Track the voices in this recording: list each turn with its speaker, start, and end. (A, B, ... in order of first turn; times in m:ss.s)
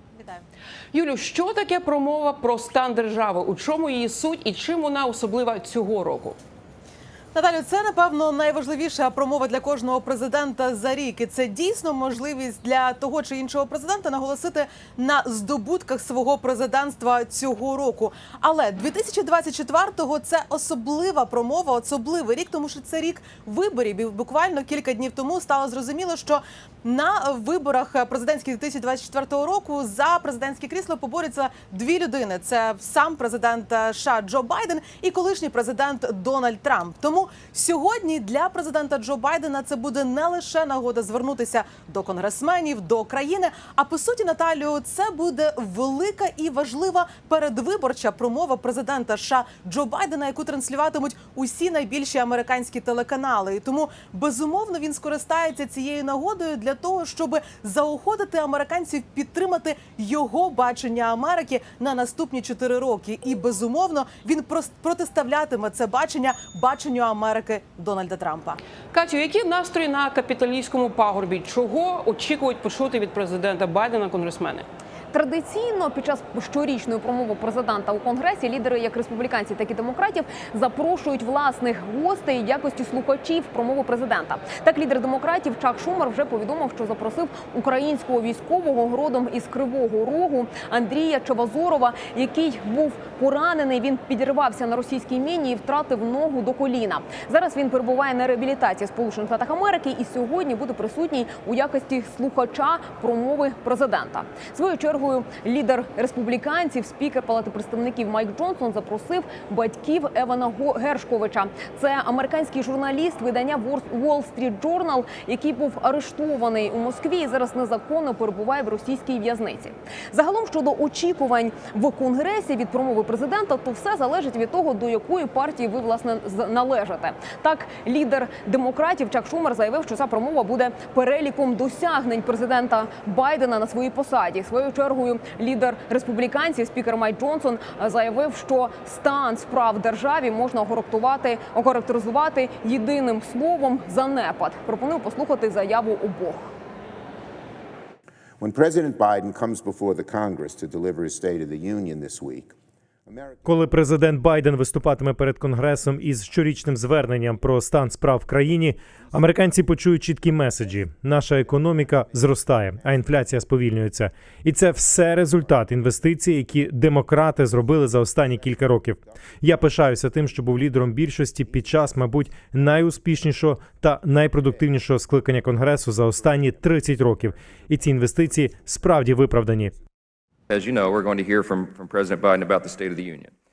0:00.9-0:06.4 A
0:07.3-1:08.6 B
1:08.9-1:14.6 A
1:15.1-2:26.5 C
2:28.4-2:32.5 D
2:33.1-2:33.7 D
2:33.4-2:59.7 E
2:39.1-2:39.4 D
2:41.6-2:43.5 D
3:00.5-3:03.3 F